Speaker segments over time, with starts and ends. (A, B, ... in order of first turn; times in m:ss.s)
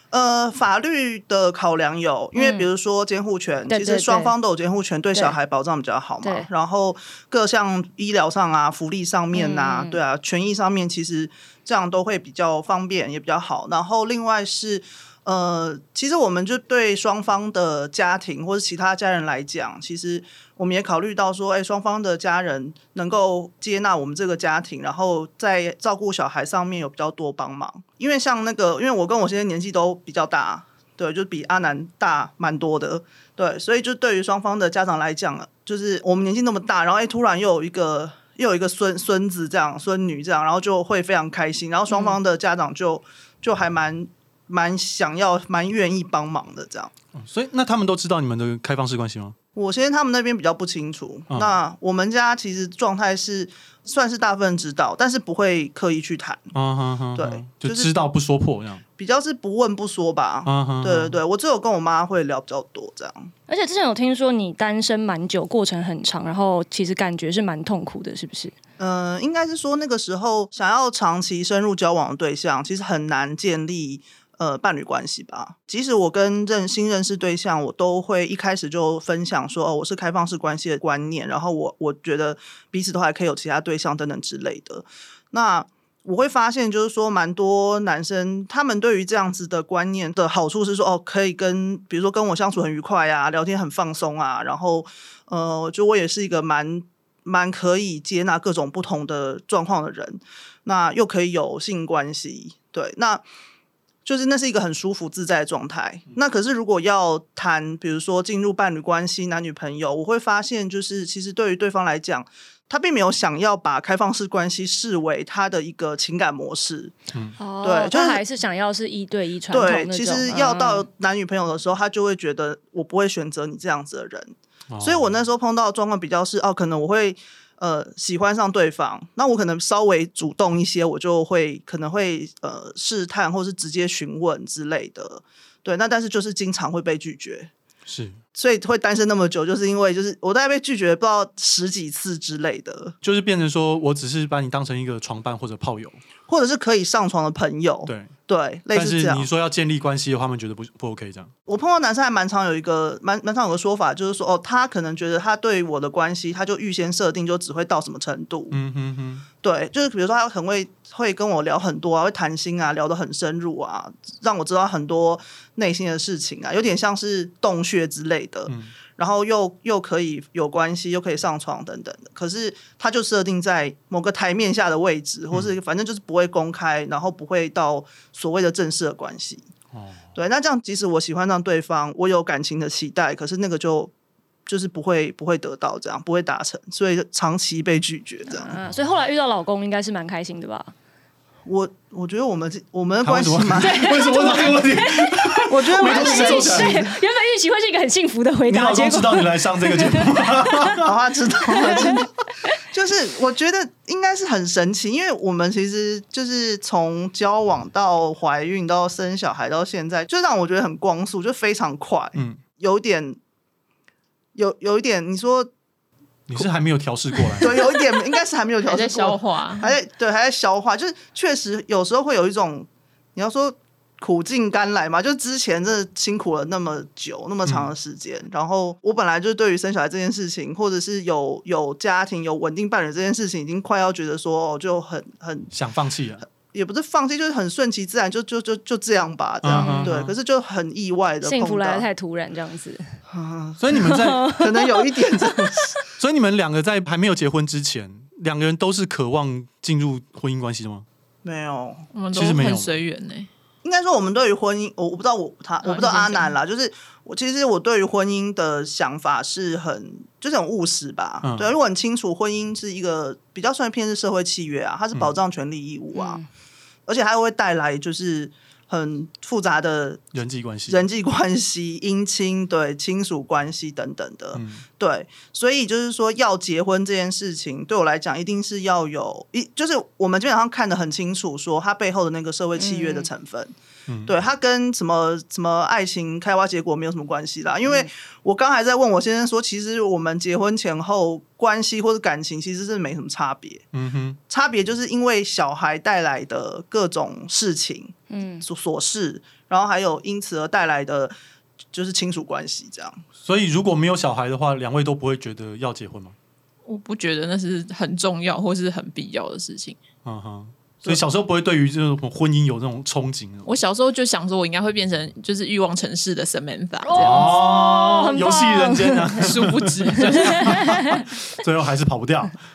0:00.1-0:46.9 A
0:02.4-0:02.7 B
0:03.7-0:04.3 B
0:06.2-0:06.5 B
0:09.3-0:10.0 B
0:41.9-0:42.2 B
0:47.2-0:49.4 C
0:49.6-0:56.5 A
0:51.3-0:51.6 C
0:56.5-0:58.8 C
0:57.2-0:57.9 A
0:59.0-1:03.3 A
1:00.4-1:01.2 C
1:03.5-1:08.5 B
1:08.8-1:43.2 A
1:44.0-1:57.0 A
1:57.4-2:00.9 B
1:57.6-1:58.2 A
1:59.5-2:17.5 A
2:04.7-2:05.1 C
2:17.9-2:18.2 C
2:18.4-2:22.9 A
2:23.0-2:26.0 C
2:26.3-2:29.2 A
2:27.9-2:28.1 C
2:28.7-2:31.3 C
2:31.5-2:38.6 A
2:38.5-2:39.2 C
2:39.4-2:59.5 A
2:48.5-2:48.7 C
2:59.7-3:00.0 C
3:00.2-3:03.9 A
3:04.5-3:08.5 A
3:08.3-3:10.7 B
3:11.4-3:14.6 A
3:13.0-3:16.8 C
3:13.6-3:20.7 B
3:15.5-3:17.0 A
3:18.5-3:20.9 C
3:20.8-3:22.1 A
3:21.5-3:22.0 B
3:22.7-3:33.2 A
3:32.2-3:32.4 C
3:34.4-3:35.5 A
3:36.3-3:37.7 C
3:37.4-3:55.5 A
3:38.6-3:39.8 D
3:47.4-3:47.7 C
3:55.5-3:56.2 C
3:56.5-4:01.9 A
3:59.4-4:00.1 C
3:59.5-3:59.9 B
4:01.2-4:02.8 B
4:03.1-4:05.8 A
4:03.6-4:04.4 C
4:03.8-4:05.2 B
4:06.0-4:10.9 C
4:11.2-4:11.9 A
4:11.9-4:13.3 D
4:12.1-4:12.7 C
4:13.6-4:26.2 A
4:15.6-4:16.3 D
4:21.2-4:21.5 C
4:25.9-4:26.2 B
4:26.9-4:30.1 A
4:30.1-4:30.9 C
4:30.7-4:43.5 A
4:34.3-4:34.6 C
4:42.6-4:43.1 B
4:43.9-4:44.1 C
4:44.1-4:53.6 A
4:53.7-4:54.2 C
4:54.3-5:01.1 A
4:58.1-4:58.4 B
5:01.7-5:03.0 A
5:03.2-5:06.2 C
5:06.6-5:09.8 D
5:10.0-5:13.5 C
5:13.5-5:17.3 D
5:16.8-5:19.2 B
5:17.0-5:22.4 C
5:19.2-5:20.6 D
5:20.4-5:21.0 B